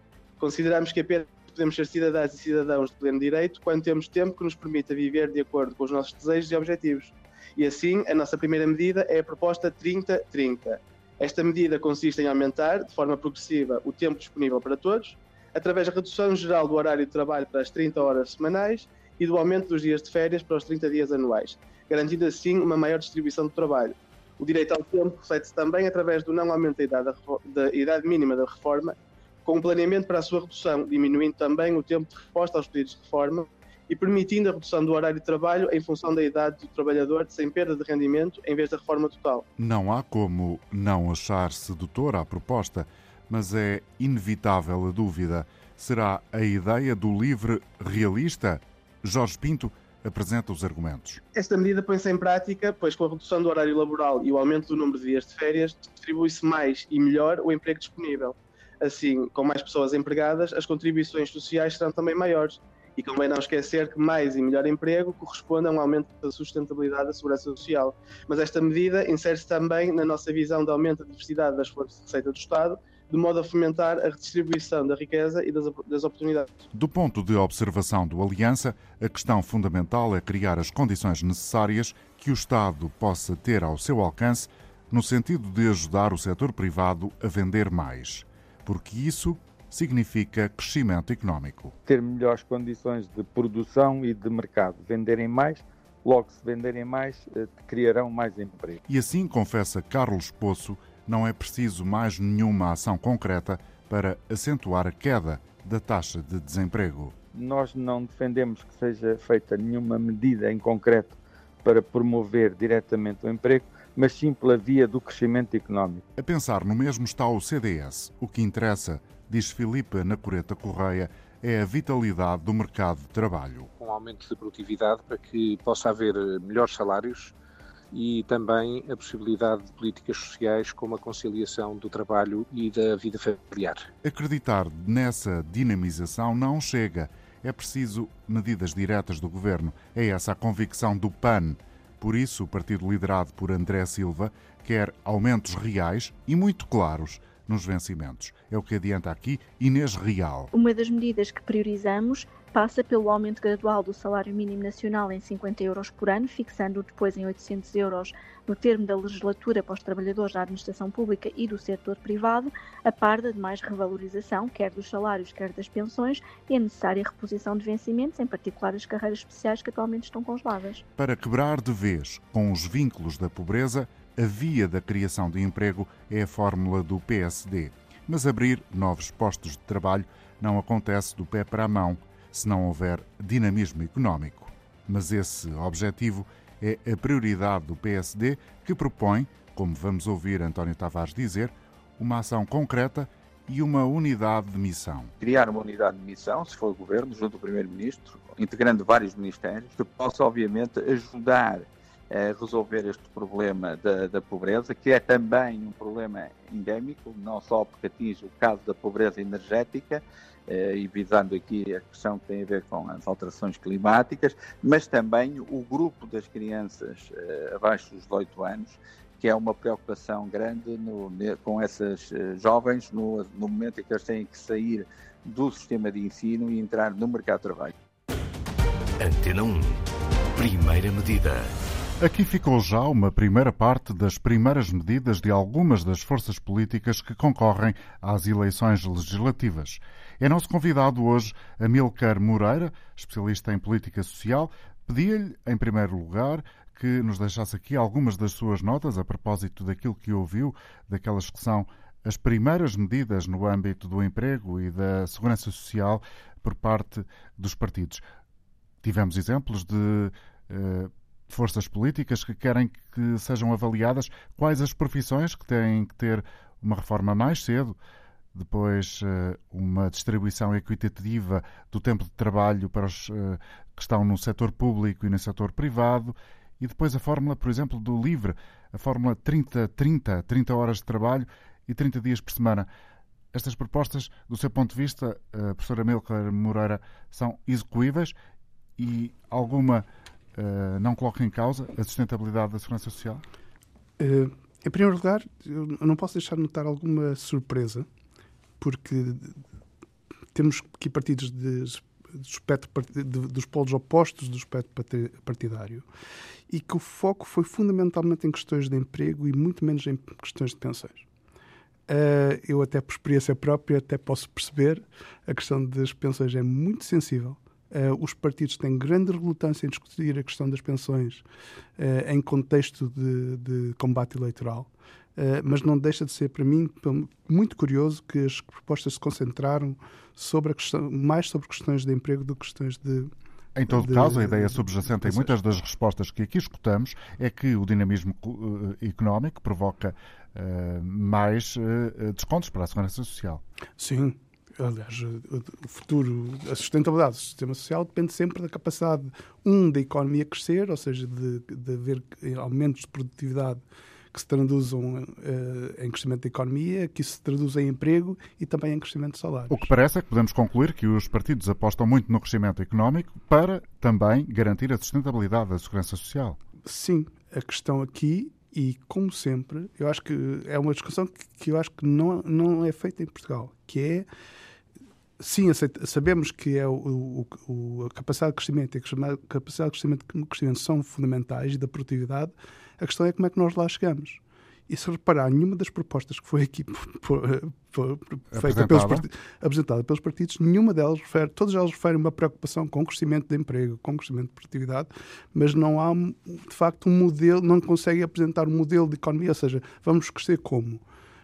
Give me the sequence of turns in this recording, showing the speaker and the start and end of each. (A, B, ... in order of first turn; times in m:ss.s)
0:00.4-0:39.4 A
0:39.6-0:51.2 B
0:51.3-1:16.5 A
1:16.7-1:31.7 B
1:31.8-1:38.8 C
1:38.9-1:47.1 B
1:47.3-1:56.0 C
1:56.2-2:03.7 B
2:03.8-2:07.3 D
2:07.9-2:13.8 D
2:14.0-2:30.5 B
2:30.5-2:50.8 E
2:51.0-3:15.1 B
3:15.2-3:47.7 F
3:49.0-3:51.6 G
3:52.0-4:18.0 B
4:18.8-4:27.8 B
4:28.3-4:42.7 B
4:43.3-4:48.1 B
4:48.8-4:53.2 B
4:54.0-4:57.9 H
4:58.6-4:59.4 H
5:00.3-5:05.8 H
5:06.5-5:11.0 H
5:11.9-5:21.2 H
5:21.8-5:33.1 H
5:33.6-5:43.4 B
5:33.7-5:35.3 H
5:43.8-5:59.7 H
5:59.5-6:06.4 B
6:06.6-6:14.1 H
6:15.2-6:40.8 H
6:28.3-6:29.0 B